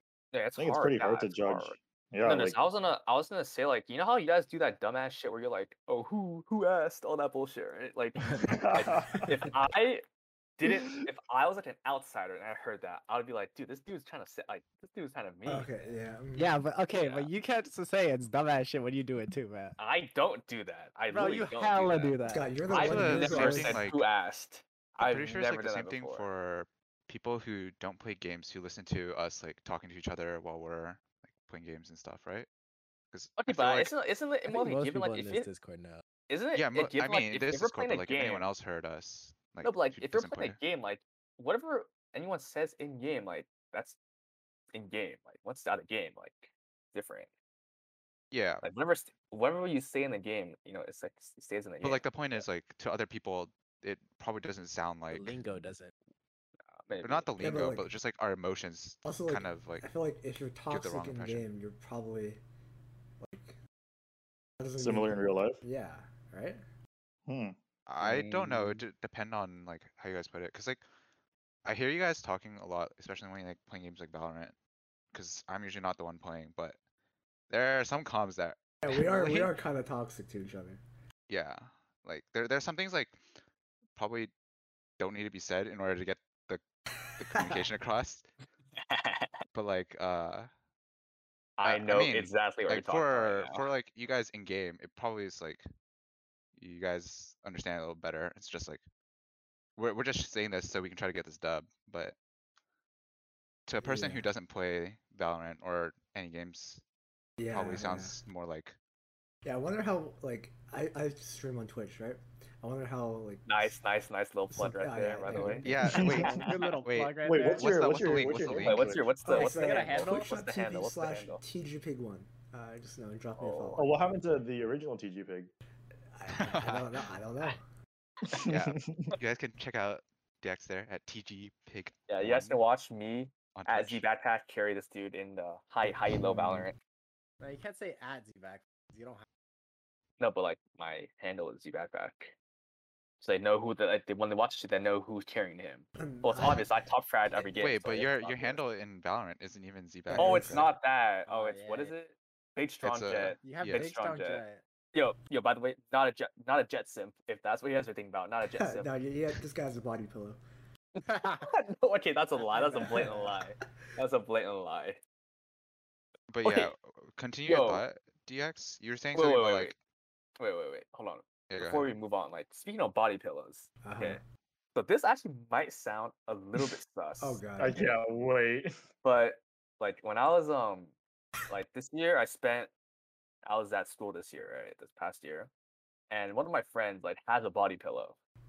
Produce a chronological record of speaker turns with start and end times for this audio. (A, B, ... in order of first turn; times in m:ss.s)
0:00.3-0:10.0 A
0:00.6-0:02.6 B
0:08.4-0:09.5 B
0:10.6-0:15.7 A
0:10.6-0:11.0 B
0:15.5-0:16.6 C
0:16.4-0:19.8 D
0:17.0-0:17.3 A
0:19.8-0:22.2 A
0:21.1-0:23.8 D
0:22.2-0:23.8 C
0:22.7-0:26.3 A
0:22.7-0:24.1 E
0:25.0-0:32.5 E
0:33.1-0:33.9 E
0:33.4-0:35.5 A
0:34.5-0:36.0 D
0:36.3-0:38.5 A
0:36.5-0:40.6 E
0:39.6-0:44.0 A
0:44.7-0:47.3 A
0:48.3-0:48.6 E
0:48.6-0:52.5 A
0:51.8-0:55.4 E
0:55.1-0:55.9 D
0:56.7-0:57.3 A
0:57.0-0:59.9 E
0:57.4-0:57.9 C
0:59.0-1:02.4 C
1:00.7-1:01.5 E
1:03.2-1:03.6 C
1:04.6-1:06.6 C
1:04.8-1:05.6 B
1:07.3-1:07.6 B
1:07.9-1:10.8 E
1:08.0-1:08.8 A
1:11.6-1:14.6 E
1:15.1-1:16.8 E
1:17.5-1:19.5 E
1:18.8-1:20.8 C
1:21.3-1:23.2 E
1:24.0-1:24.3 E
1:25.0-1:26.6 E
1:27.2-1:28.3 E
1:27.2-1:27.6 C
1:28.8-1:29.4 A
1:29.5-1:30.5 E
1:31.6-1:33.6 A
1:31.6-1:35.7 E
1:36.6-1:38.8 E
1:39.8-1:42.2 E
1:43.7-1:46.8 E
1:43.8-1:44.3 C
1:47.4-1:48.2 C
1:47.5-1:48.8 E
1:49.4-1:53.8 C
1:53.5-1:56.4 A
1:54.5-1:56.4 C
1:55.6-1:59.1 E
1:55.9-1:56.4 B
1:55.9-1:58.1 D
1:57.2-1:59.1 B
1:58.6-2:01.4 A
1:59.2-2:04.1 C
1:59.3-2:00.2 D
2:03.4-2:03.9 A
2:03.8-2:05.5 B
2:06.1-2:07.6 C
2:06.3-2:07.0 E
2:08.3-2:09.1 B
2:08.5-2:12.6 E
2:12.1-2:16.8 A
2:13.6-2:14.0 E
2:15.9-2:16.7 C
2:17.4-2:19.3 D
2:20.2-2:22.4 A
2:23.2-2:28.6 A
2:26.0-2:26.7 C
2:27.3-2:30.7 E
2:30.1-2:30.7 C
2:30.2-2:38.9 A
2:31.3-2:32.0 D
2:32.8-2:33.9 E
2:33.4-2:34.6 D
2:38.6-2:40.4 C
2:41.1-2:41.5 D
2:41.4-2:45.0 A
2:42.6-2:43.7 C
2:46.3-2:49.8 E
2:46.4-2:46.7 A
2:47.5-2:47.8 A
2:49.1-2:49.8 A
2:50.4-2:54.2 A
2:51.5-2:51.9 E
2:53.8-2:54.2 C
2:54.8-2:57.4 A
2:57.2-2:57.8 C
2:57.6-2:58.7 B
2:59.0-3:00.9 A
3:01.5-3:02.7 A
3:03.5-3:05.5 A
3:06.1-3:08.2 A